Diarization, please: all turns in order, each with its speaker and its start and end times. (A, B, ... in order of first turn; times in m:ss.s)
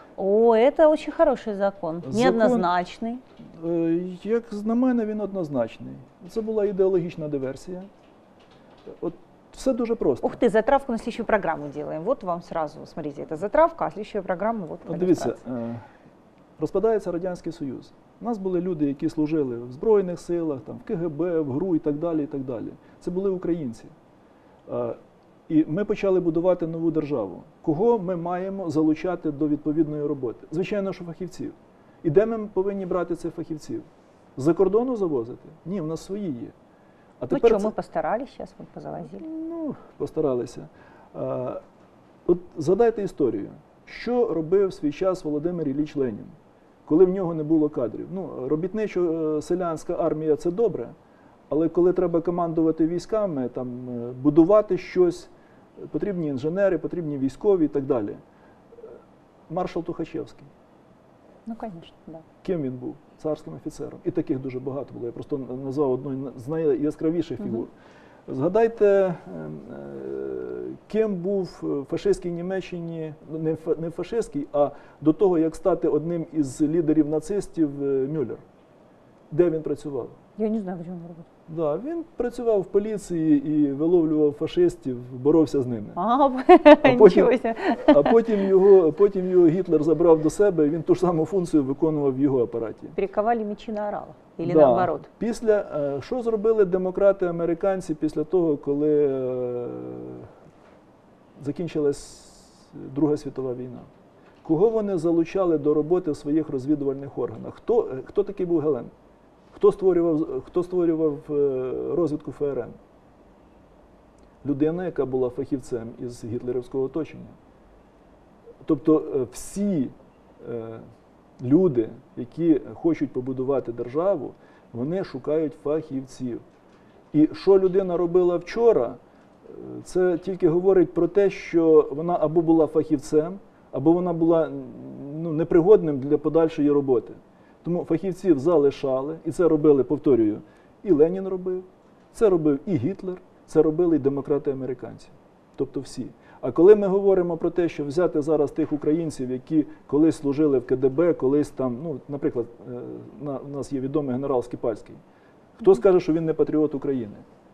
0:00.2-0:03.2 A
0:02.0-0:02.7 B
0:03.6-0:07.9 B
0:09.0-0:10.4 B
0:10.2-0:15.4 A
0:14.8-0:15.8 B
0:16.6-0:23.9 B
0:24.7-0:36.5 B
0:37.2-0:37.7 B
0:37.3-0:39.2 A
0:39.0-0:41.6 B
0:42.2-0:46.3 B
0:46.8-0:50.9 B
0:51.5-0:58.2 B
0:59.5-1:00.5 B
1:01.4-1:02.2 A
1:02.4-1:07.7 B
1:08.3-1:18.4 B
1:19.3-1:20.2 B
1:20.4-1:21.3 A
1:21.5-1:26.0 B
1:26.0-1:28.5 A
1:26.8-1:32.9 B
1:32.9-1:35.1 A
1:34.4-1:40.3 B
1:41.4-1:43.9 B
1:44.4-1:48.9 B
1:49.5-1:52.8 B
1:54.4-1:57.4 B
1:58.6-2:00.9 B
2:01.4-2:06.4 B
2:07.1-2:35.0 B
2:35.6-2:37.2 B